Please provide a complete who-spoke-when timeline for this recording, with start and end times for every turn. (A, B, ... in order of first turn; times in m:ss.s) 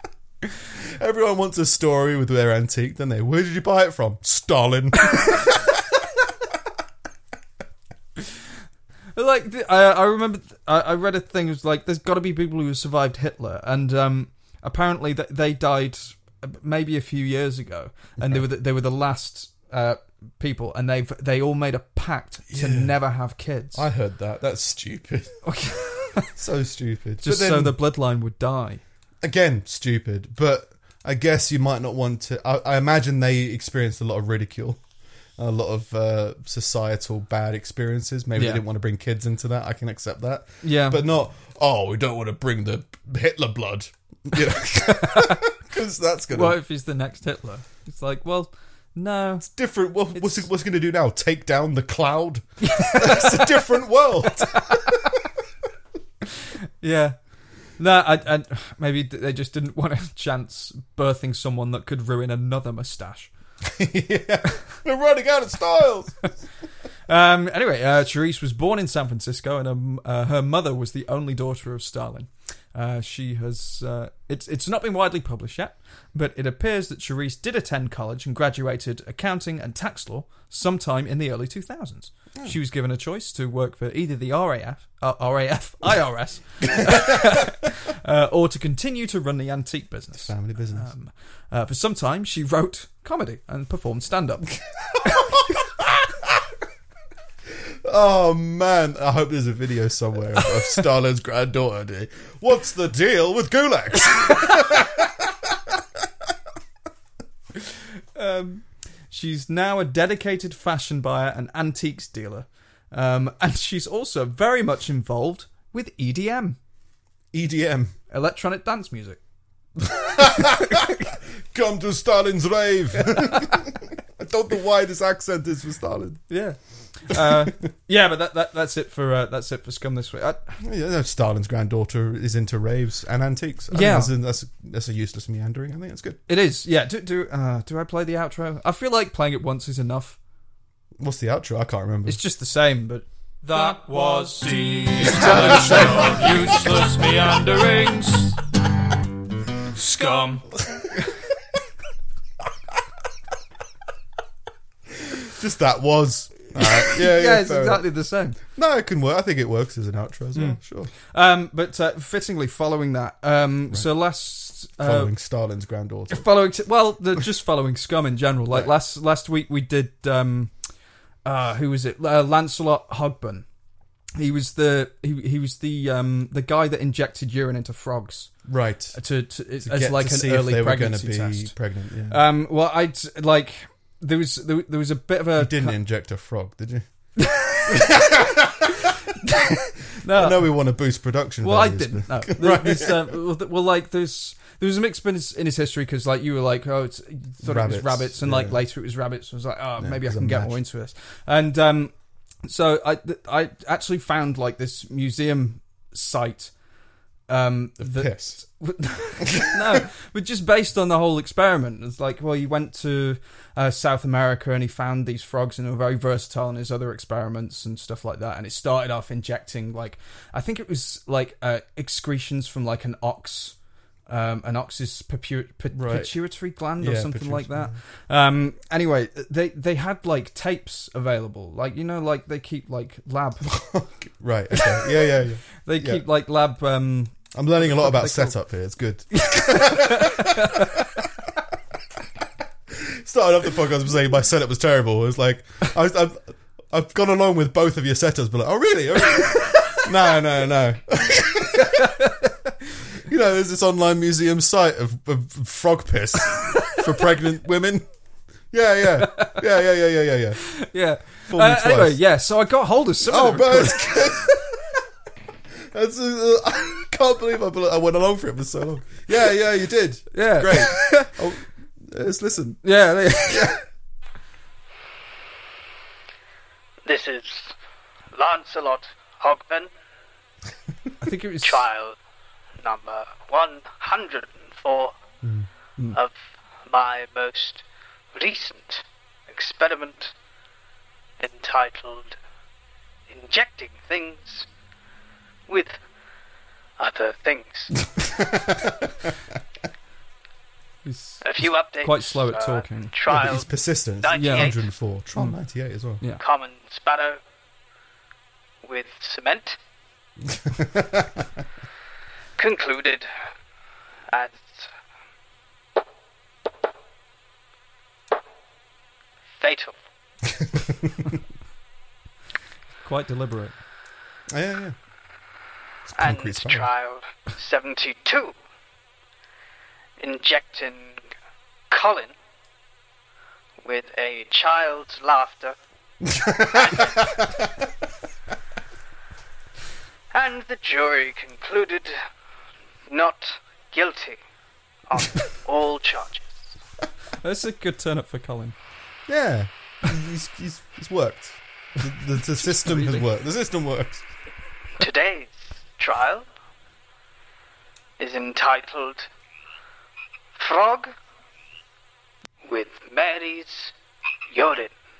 0:00.7-0:06.0 A
0:09.1-0:23.8 B
0:22.5-0:22.9 A
0:23.7-0:25.4 A
0:25.4-0:26.3 B
0:26.3-0:27.8 A
0:27.2-0:28.8 B
0:29.2-0:34.8 A
0:35.4-0:46.6 A
0:38.4-0:38.6 B
0:40.6-0:41.0 B
0:44.8-0:45.4 B
0:46.3-0:49.5 B
0:49.4-0:54.8 A
0:50.1-0:50.4 B
0:52.6-0:53.6 B
0:54.2-0:55.1 B
0:56.3-0:57.2 B
0:57.8-1:03.3 B
1:03.6-1:06.2 A
1:07.1-1:35.4 B
1:30.1-1:30.9 A
1:34.9-1:36.4 A
1:37.6-1:46.3 A
1:47.6-1:56.6 B
1:57.3-1:57.9 A
1:58.1-1:59.2 B
2:00.0-2:01.0 B
2:00.0-2:06.3 A
2:03.1-2:03.6 B
2:06.3-2:10.6 B
2:07.2-2:07.5 A
2:10.6-2:16.2 A
2:13.7-2:14.1 B
2:16.3-2:20.2 B
2:21.0-2:22.2 A
2:22.0-2:28.4 B
2:25.1-2:26.1 A
2:29.7-2:30.5 B
2:35.1-2:37.8 A
2:36.6-2:38.4 B
2:38.5-2:40.9 A
2:40.3-2:45.1 B
2:44.8-2:46.2 A
2:46.1-2:50.5 B
2:51.2-2:53.4 B
2:54.2-3:01.5 B
2:58.4-2:59.0 A
2:59.6-3:02.2 A
3:02.1-3:05.8 B
3:05.4-3:06.8 A
3:07.2-3:08.0 B
3:07.6-3:08.8 A
3:09.2-3:10.5 B
3:10.1-3:13.1 A
3:11.4-3:26.5 B
3:17.4-3:18.6 A
3:19.8-3:20.6 A
3:27.3-3:53.7 B
3:27.8-3:28.4 A
3:29.3-3:29.8 A
3:45.7-3:46.1 A
3:46.8-3:47.8 A
3:53.4-3:56.0 A
3:55.6-3:58.3 B
3:57.3-4:00.8 A
3:59.1-4:01.0 B
4:02.7-4:11.9 A
4:11.6-4:12.3 B
4:12.9-4:17.8 A
4:18.5-4:20.6 A
4:20.5-4:24.0 B
4:21.3-4:22.0 A
4:23.0-4:24.8 A
4:25.7-4:32.6 A
4:30.1-4:31.2 B
4:32.6-4:33.6 B
4:33.3-4:33.6 A
4:36.8-4:37.5 C
4:38.1-4:39.7 C
4:41.0-4:41.6 B
4:41.4-4:42.0 C
4:42.6-4:44.9 C
4:45.9-4:50.1 C
4:51.2-4:52.2 C
4:53.1-4:54.5 C
4:55.5-4:55.8 C
4:56.8-4:57.8 C
4:58.0-4:58.8 A
5:00.8-5:02.9 B
5:01.2-5:03.5 C
5:03.1-5:06.0 A
5:04.0-5:04.6 C
5:04.1-5:04.5 B
5:06.2-5:07.2 C
5:08.6-5:09.6 C
5:10.2-5:11.2 A
5:12.4-5:13.1 C
5:14.1-5:14.7 C
5:19.4-5:19.8 C
5:20.4-5:20.9 A
5:22.8-5:23.6 B
5:24.3-5:24.8 A
5:25.9-5:26.7 A
5:26.0-5:28.3 C
5:30.0-5:31.0 C
5:31.7-5:32.1 C
5:33.6-5:35.6 C
5:36.0-5:37.3 A
5:36.4-5:37.1 C
5:40.1-5:42.0 C
5:42.9-5:44.2 C
5:44.9-5:46.5 C
5:47.2-5:48.5 B
5:49.1-5:54.1 A
5:52.4-5:53.0 B
5:54.8-5:56.3 C
5:58.0-5:59.1 C
6:00.4-6:00.9 C
6:02.4-6:03.7 C
6:04.3-6:04.7 C